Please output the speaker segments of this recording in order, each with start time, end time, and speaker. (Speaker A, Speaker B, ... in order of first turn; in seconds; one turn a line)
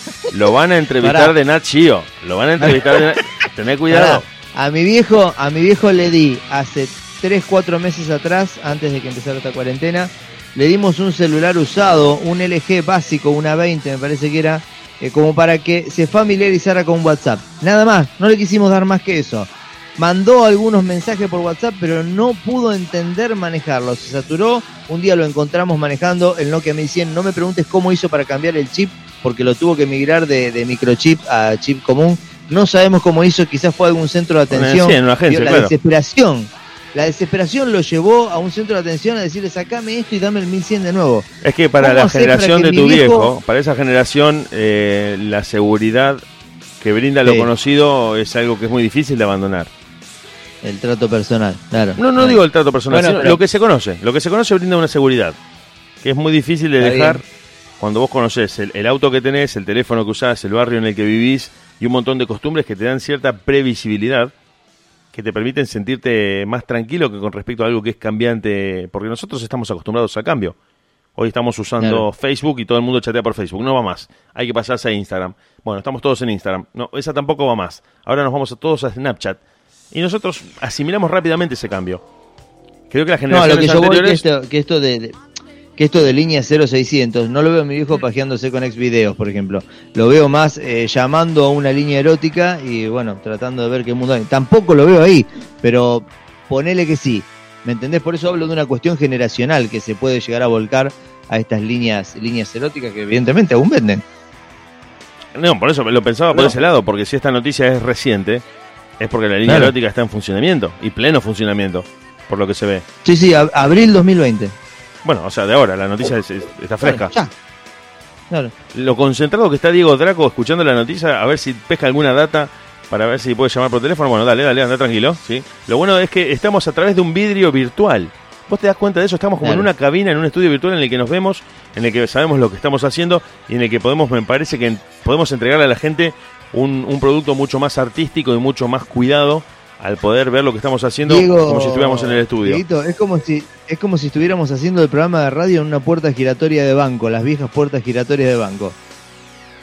Speaker A: 0.3-4.3
Speaker B: 1.0-1.3
Speaker B: 2.6-3.0
Speaker B: 3.9-41.3
Speaker A: 34.5-35.7
Speaker A: 41.4-46.2
Speaker B: 41.8-43.3
Speaker A: 46.8-49.7
Speaker B: 50.6-53.4
Speaker A: 52.0-55.4
Speaker A: 56.0-57.2
Speaker B: 56.8-57.2
Speaker A: 57.8-64.3
Speaker A: 65.1-70.6
Speaker A: 71.2-79.4
Speaker A: 79.9-82.0
Speaker A: 82.9-84.2
Speaker B: 83.3-85.2
Speaker B: 85.8-104.0
Speaker A: 105.3-108.4
Speaker A: 109.0-112.8
Speaker B: 109.5-109.7
Speaker B: 113.0-114.5
Speaker A: 115.0-117.1
Speaker B: 116.8-117.3
Speaker A: 118.7-142.6
Speaker B: 129.4-129.7
Speaker B: 141.0-148.8